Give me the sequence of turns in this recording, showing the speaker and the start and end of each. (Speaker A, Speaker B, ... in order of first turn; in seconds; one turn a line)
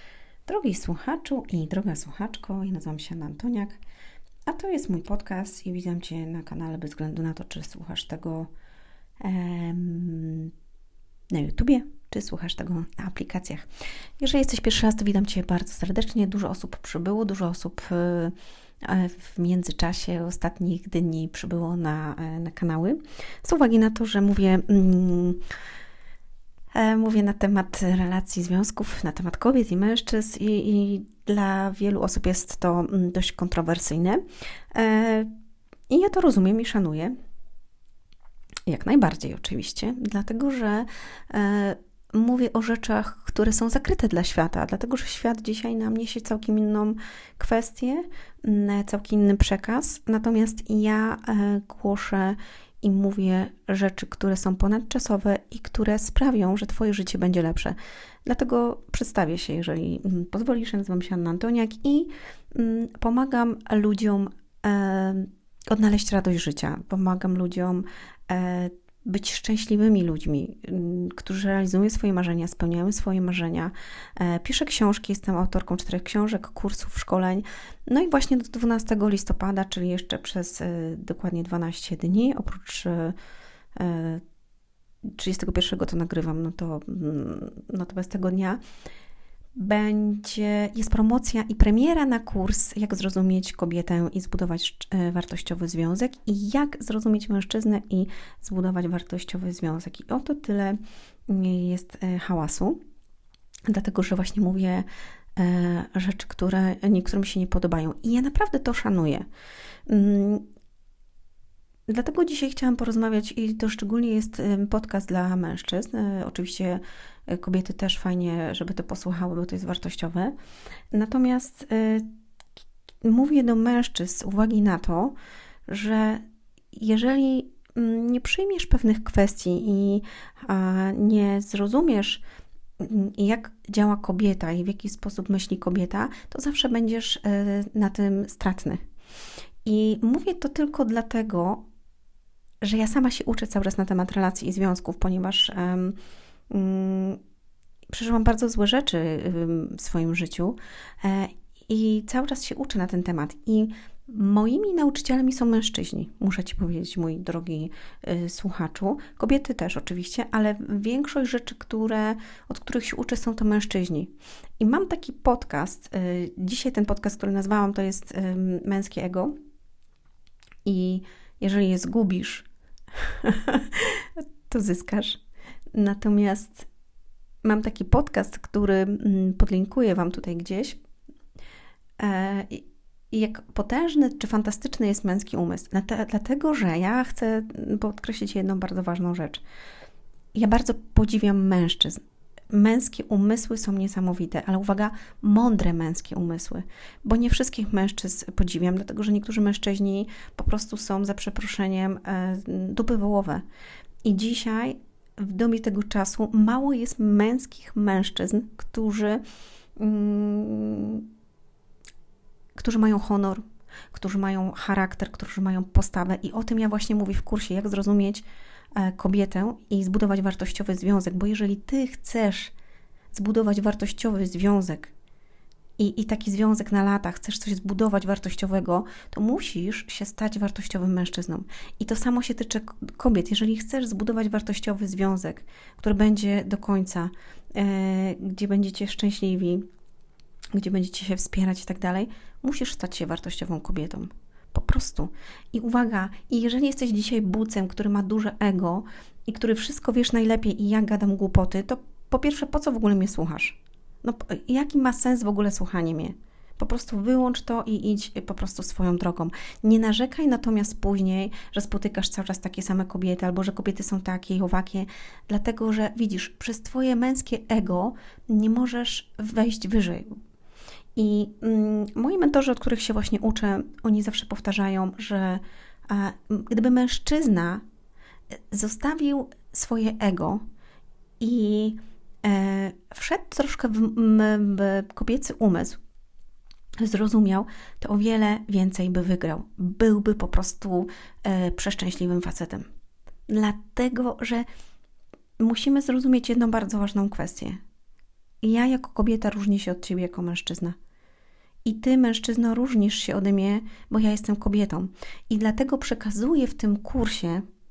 Speaker A: 0.5-3.8
Speaker A: 4.5-8.5
Speaker A: 9.2-10.5
Speaker A: 11.3-13.7
Speaker A: 14.2-25.4
Speaker A: 26.7-34.2
Speaker A: 34.7-35.3
Speaker A: 35.9-37.1
Speaker A: 38.7-83.2
Speaker A: 83.8-84.2
Speaker A: 85.1-88.6
Speaker A: 89.5-102.8
Speaker A: 103.7-109.3
Speaker A: 109.9-110.5
Speaker A: 111.9-120.3
Speaker A: 120.9-122.1
Speaker A: 123.0-125.1
Speaker A: 125.7-132.2
Speaker A: 132.8-138.8
Speaker A: 139.6-141.7
Speaker A: 142.6-146.0
Speaker A: 146.5-147.2
Speaker A: 147.9-169.4
Speaker A: 170.7-175.2
Speaker A: 175.7-176.7
Speaker A: 177.4-180.8
Speaker A: 182.0-189.4
Speaker A: 190.3-192.0
Speaker A: 192.5-203.4
Speaker A: 204.0-209.2
Speaker A: 209.8-211.1
Speaker A: 212.6-218.2
Speaker A: 218.8-222.5
Speaker A: 223.1-224.9
Speaker A: 225.8-239.7
Speaker A: 240.5-270.1
Speaker A: 271.0-277.6
Speaker A: 278.5-280.4
Speaker A: 281.2-285.8
Speaker A: 286.8-292.7
Speaker A: 293.3-294.5
Speaker A: 295.4-297.6
Speaker A: 298.4-300.8
Speaker A: 301.6-307.4